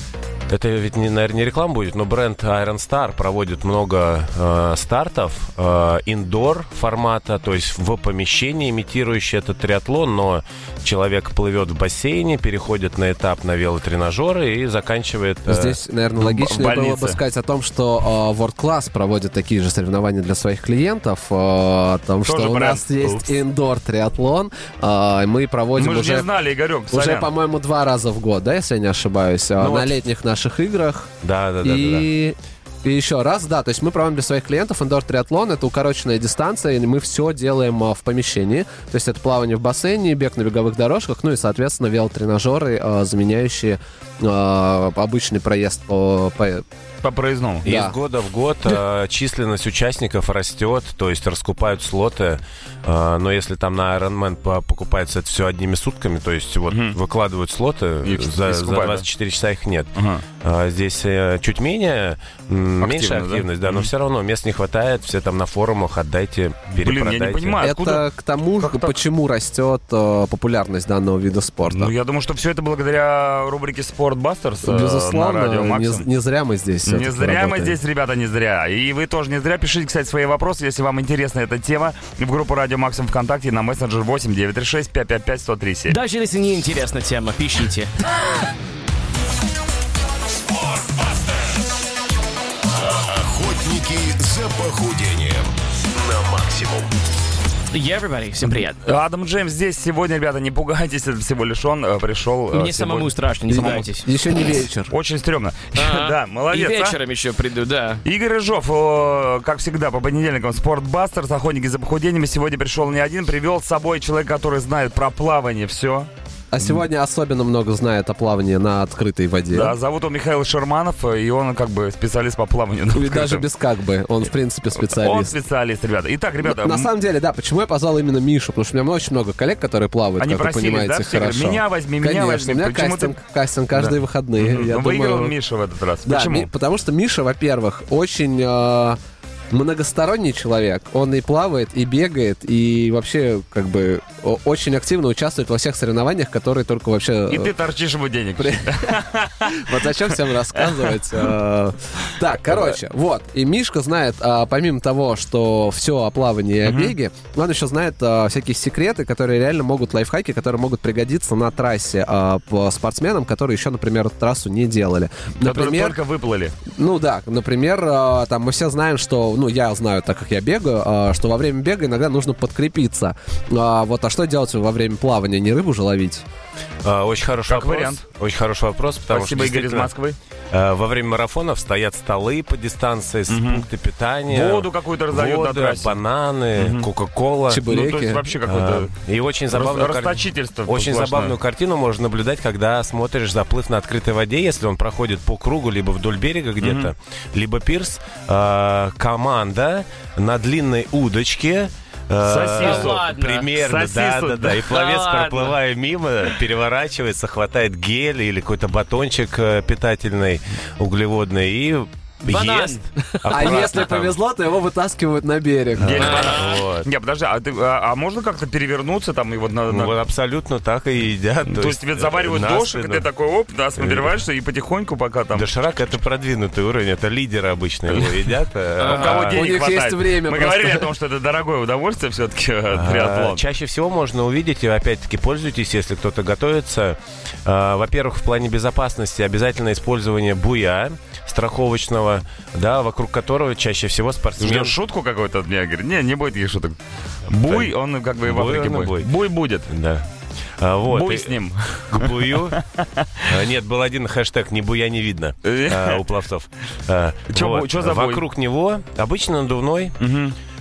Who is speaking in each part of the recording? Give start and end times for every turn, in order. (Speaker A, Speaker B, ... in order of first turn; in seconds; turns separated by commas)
Speaker A: 0.5-15.8, Speaker B: 15.5-26.2, Speaker C: 16.2-17.2, Speaker C: 22.2-23.1, Speaker C: 25.8-27.3, Speaker B: 26.9-31.1, Speaker A: 29.6-29.9, Speaker A: 31.2-32.1, Speaker B: 31.6-46.6, Speaker C: 47.0-47.6, Speaker B: 47.6-47.9, Speaker A: 47.6-67.6, Speaker C: 56.7-57.0, Speaker C: 58.0-59.0, Speaker C: 60.0-60.2, Speaker C: 62.8-63.9, Speaker C: 66.8-68.0, Speaker B: 67.6-71.9, Speaker C: 68.6-69.0, Speaker C: 71.7-76.0, Speaker B: 74.6-77.8, Speaker C: 76.8-86.0, Speaker D: 85.9-87.9, Speaker E: 92.7-96.9, Speaker D: 97.7-98.8, Speaker C: 98.8-103.8, Speaker D: 102.5-104.1, Speaker B: 103.5-104.9, Speaker C: 104.9-107.0, Speaker D: 105.8-108.0, Speaker C: 108.0-116.1, Speaker B: 116.5-119.7, Speaker C: 119.5-123.5, Speaker B: 122.9-125.3, Speaker C: 124.8-126.9, Speaker B: 126.4-135.3, Speaker C: 130.2-133.2, Speaker C: 133.7-136.5, Speaker B: 136.1-139.0, Speaker B: 139.5-147.5, Speaker C: 147.3-151.2, Speaker B: 148.4-166.0, Speaker C: 152.5-152.7, Speaker C: 156.6-156.9, Speaker C: 165.4-166.6, Speaker B: 166.7-176.2, Speaker A: 176.8-179.9, Speaker C: 177.5-178.0, Speaker C: 179.1-180.2, Speaker A: 180.5-187.7, Speaker C: 183.3-183.7, Speaker C: 184.3-186.0, Speaker C: 186.6-186.9, Speaker B: 187.5-188.2, Speaker C: 187.6-188.9, Speaker A: 188.4-214.2, Speaker C: 189.5-191.3, Speaker C: 196.6-196.9, Speaker C: 202.2-204.6, Speaker D: 202.6-203.5, Speaker D: 204.7-205.6, Speaker D: 212.3-213.7, Speaker B: 213.3-216.3, Speaker A: 215.8-216.9, Speaker C: 215.8-220.0, Speaker D: 215.9-216.7, Speaker A: 219.7-223.1, Speaker C: 221.4-225.5, Speaker A: 223.8-224.1, Speaker A: 225.3-229.4, Speaker C: 227.9-228.2, Speaker C: 228.8-233.4, Speaker D: 228.8-229.4, Speaker B: 229.3-230.9, Speaker A: 232.7-244.8, Speaker C: 244.4-249.7, Speaker A: 247.4-247.7, Speaker A: 248.2-249.1, Speaker A: 249.7-250.1, Speaker A: 250.6-251.3, Speaker C: 250.9-253.3, Speaker A: 251.9-252.6, Speaker A: 253.2-260.0, Speaker C: 255.4-256.0, Speaker C: 257.3-258.2, Speaker C: 260.0-260.3